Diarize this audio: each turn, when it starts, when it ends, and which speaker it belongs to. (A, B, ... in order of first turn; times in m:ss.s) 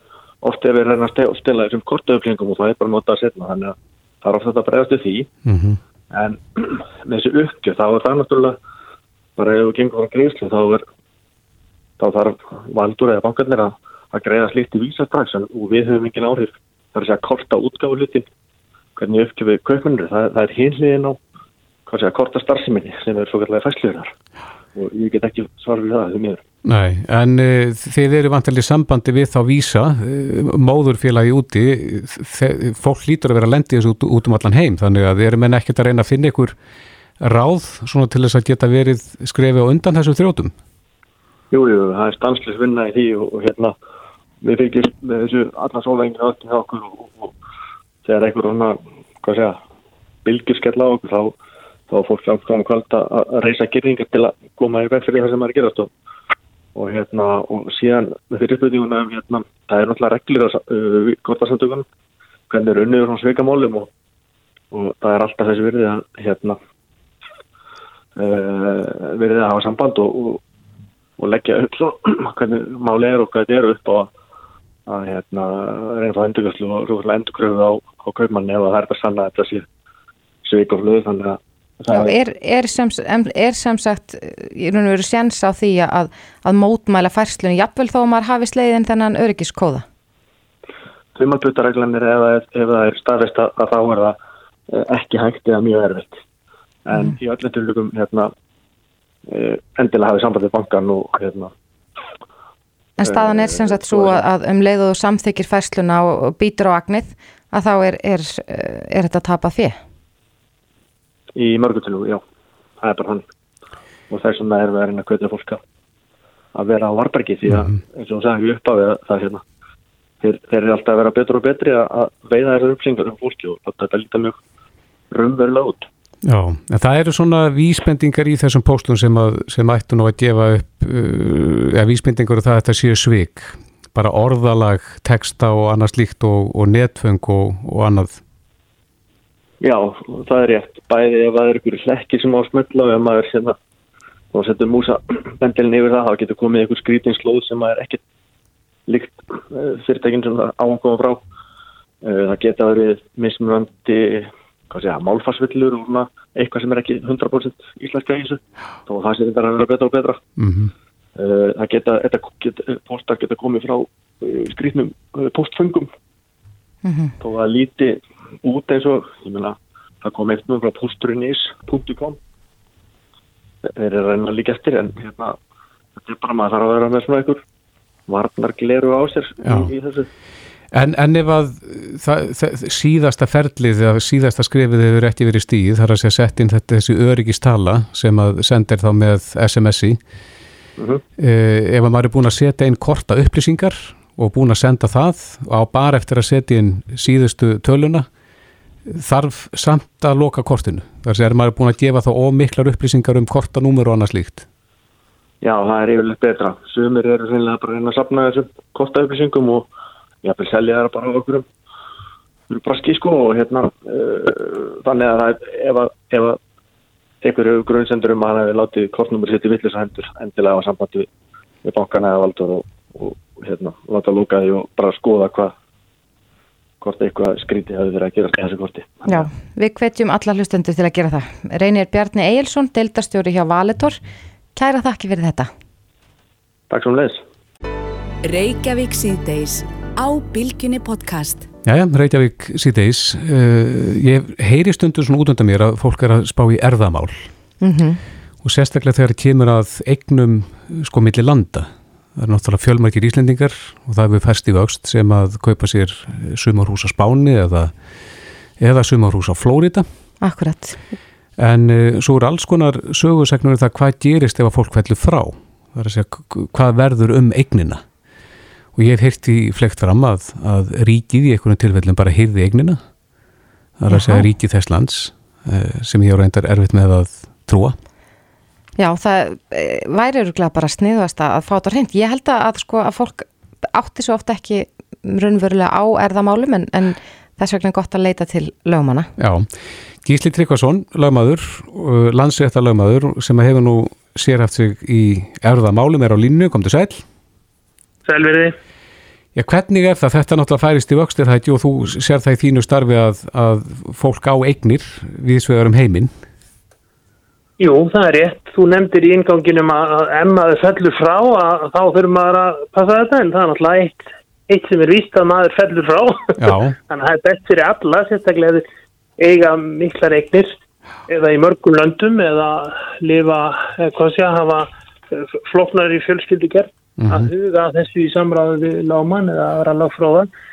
0:00.4-0:05.3 A
0:05.5-0:05.8 B
0:06.1-0:08.6 A
0:09.4-0:10.8 A
0:12.0-0:18.3 A
0:19.0-0:21.2 A
0:21.9-0:24.1 A
0:24.8-0:26.4 A
0:26.6-0:36.6 B
0:37.2-0:40.5 B
0:41.5-0:43.8 A
0:44.4-0:47.4 A
0:48.0-0:49.6 A
0:50.2-0:51.3 A
0:51.9-0:55.9 A
0:56.8-1:01.8 A
1:02.5-1:03.9 A
1:04.7-1:06.6 A
1:08.2-1:10.4 A
1:11.2-1:14.1 A
1:14.9-1:19.7 A
1:20.4-1:22.2 A
1:21.9-1:29.9 C
1:31.2-1:34.2 A
1:34.7-1:36.2 A
1:36.9-1:38.3 A
1:39.3-1:41.5 A
1:43.0-1:49.8 C
1:43.0-1:44.2 A
1:51.4-1:52.2 A
1:52.8-1:53.2 A
1:54.1-1:55.6 A
1:56.5-1:59.4 A
1:57.5-1:57.8 B
2:00.2-2:04.4 A
2:05.1-2:05.9 A
2:06.2-2:18.2 B
2:19.6-2:23.6 A
2:24.3-2:28.0 A
2:28.9-2:31.2 A
2:32.0-2:40.2 A
2:40.4-2:40.7 B
2:41.2-2:45.9 A
2:46.8-2:47.2 C
2:47.2-2:52.2 A
2:53.7-2:55.4 A
2:56.0-2:57.4 A
2:58.1-3:00.1 A
2:59.4-2:59.7 B
3:00.7-3:10.0 B
3:10.8-3:11.0 A
3:11.2-3:18.1 B
3:18.9-3:24.5 B
3:25.4-3:29.7 A
3:30.2-3:31.5 A
3:32.5-3:36.4 A
3:37.2-3:41.1 A
3:41.6-3:45.5 A
3:46.8-3:49.3 A
3:49.1-3:54.0 C
3:54.6-3:55.5 C
3:56.7-3:57.2 A
3:58.2-4:01.5 D
4:01.6-4:07.3 B
4:07.6-4:08.0 C
4:08.4-4:17.7 B
4:18.6-4:19.8 B
4:20.2-4:20.8 C
4:21.4-4:27.8 B
4:28.8-4:32.8 B
4:33.8-4:37.8 B
4:33.9-4:34.3 C
4:38.8-4:49.1 C
4:49.2-4:49.5 B
4:50.0-4:57.0 B
4:58.0-4:58.5 E
4:59.4-5:06.1 B
5:07.6-5:18.6 E
5:16.4-5:16.8 B
5:19.2-5:20.6 E
5:21.1-5:30.3 E
5:27.0-5:27.3 B